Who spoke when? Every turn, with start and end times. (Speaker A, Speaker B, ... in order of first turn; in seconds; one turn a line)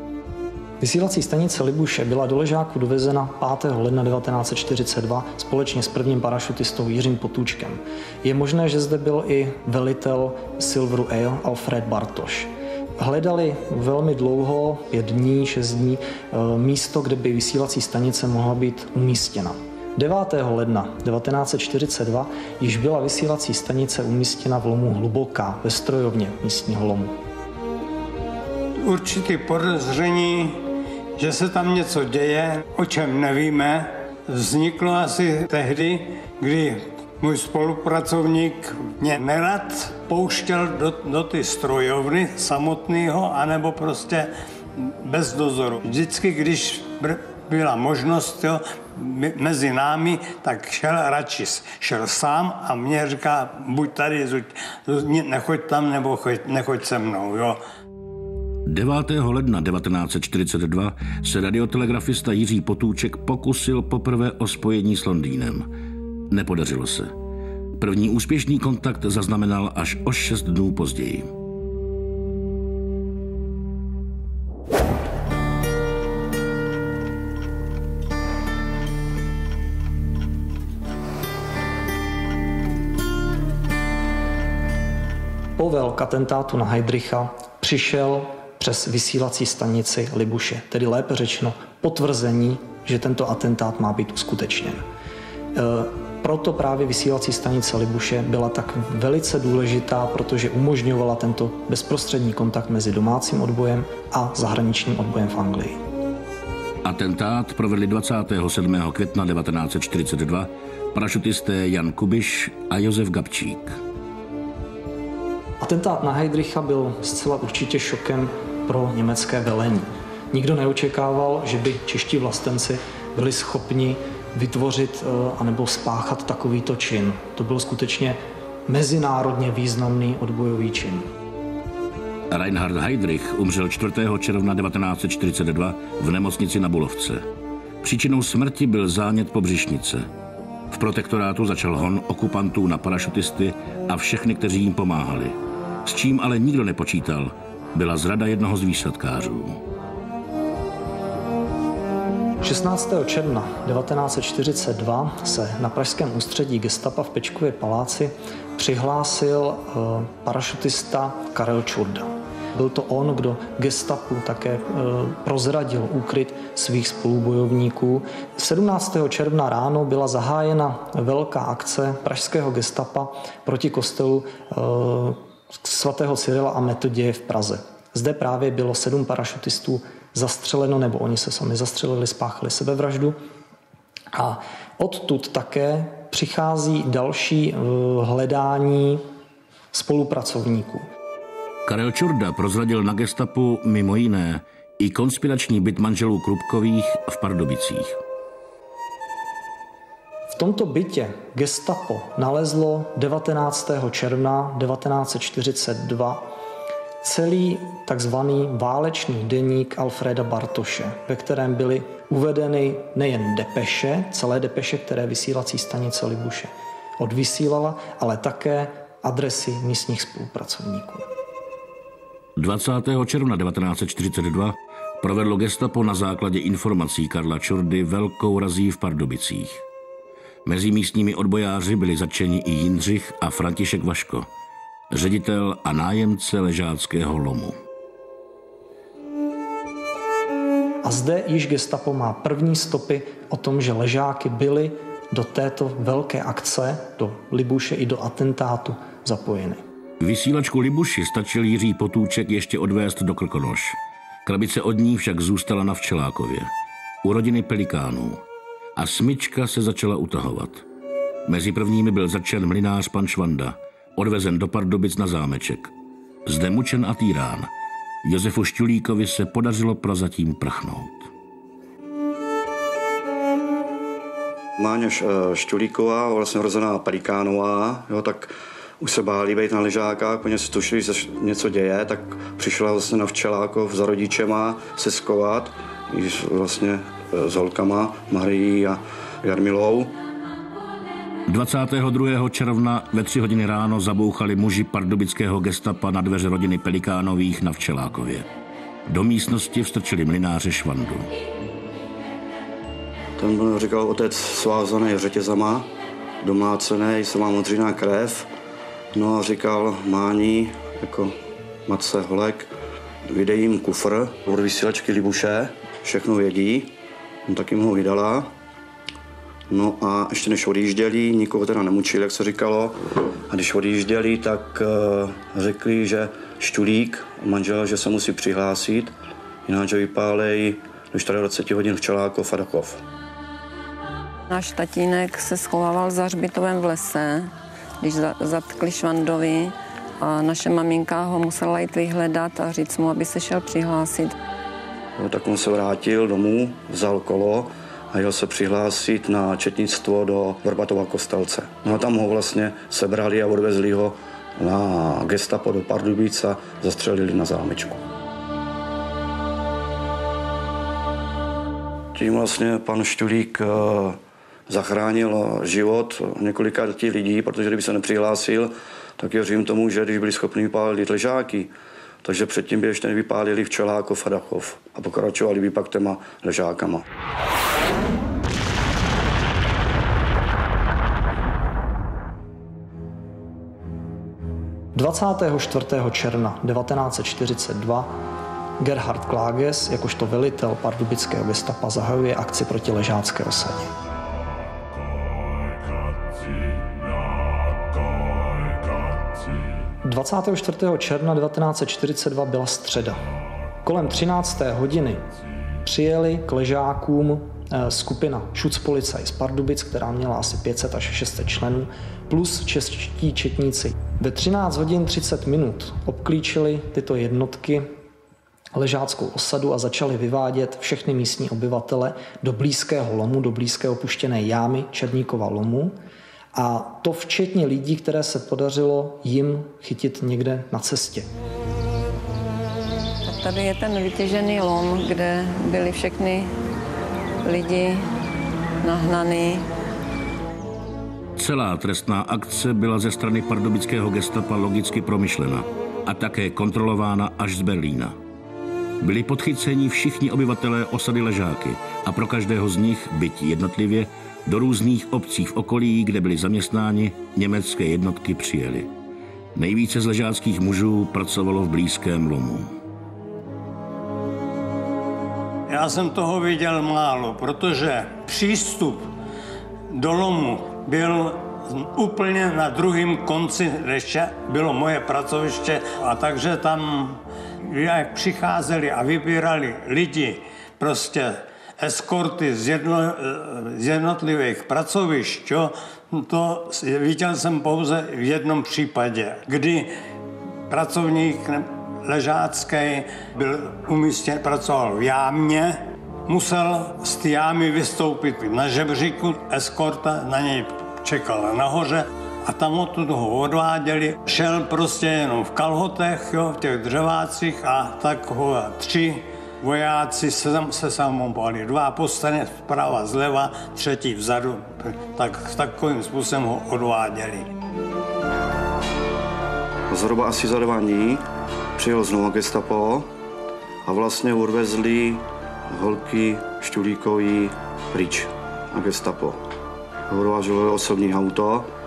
Speaker A: 0.8-27.1
Speaker B: 28.8-30.6
Speaker B: 31.2-57.6
Speaker C: 58.6-65.7
Speaker C: 66.3-67.1
Speaker C: 67.8-71.3
Speaker A: 85.6-94.8
Speaker A: 95.5-105.8
Speaker C: 106.8-113.8
Speaker A: 115.6-131.1
Speaker C: 132.3-137.2
Speaker C: 137.8-140.1
Speaker C: 140.7-149.6
Speaker A: 152.4-183.2
Speaker A: 184.1-189.1
Speaker A: 189.7-190.9
Speaker C: 191.7-198.0
Speaker A: 200.3-206.3
Speaker A: 207.0-221.1
Speaker C: 222.4-229.6
Speaker C: 230.4-234.3
Speaker C: 234.9-237.6
Speaker A: 240.8-249.6
Speaker C: 250.0-256.5
Speaker C: 257.0-258.2
Speaker C: 258.8-260.6
Speaker C: 261.2-265.7
Speaker C: 266.2-267.5
Speaker C: 268.0-271.1
Speaker D: 274.6-289.9
Speaker C: 291.3-298.2
Speaker C: 298.9-301.1
Speaker D: 303.2-305.7
Speaker D: 306.2-308.3
Speaker D: 308.9-312.5
Speaker D: 313.1-316.7
Speaker D: 317.2-318.3
Speaker D: 319.5-328.9
Speaker D: 329.4-332.8
Speaker E: 334.3-344.1
Speaker D: 345.0-357.8
Speaker D: 361.9-371.5
Speaker D: 372.0-376.8
Speaker A: 384.7-387.9
Speaker A: 388.6-393.7
Speaker A: 399.8-403.0
Speaker A: 403.6-405.0
Speaker A: 405.6-417.7
Speaker A: 418.5-425.8
Speaker A: 426.3-431.1
Speaker E: 433.0-436.3
Speaker E: 437.2-437.9
Speaker E: 438.6-439.5
Speaker C: 441.2-447.9
Speaker C: 448.8-458.7
Speaker C: 459.3-462.5
Speaker B: 465.5-468.9
Speaker B: 469.7-489.7
Speaker B: 490.5-517.3
Speaker D: 519.7-521.0
Speaker D: 521.6-522.9
Speaker D: 523.6-529.2
Speaker D: 529.9-531.5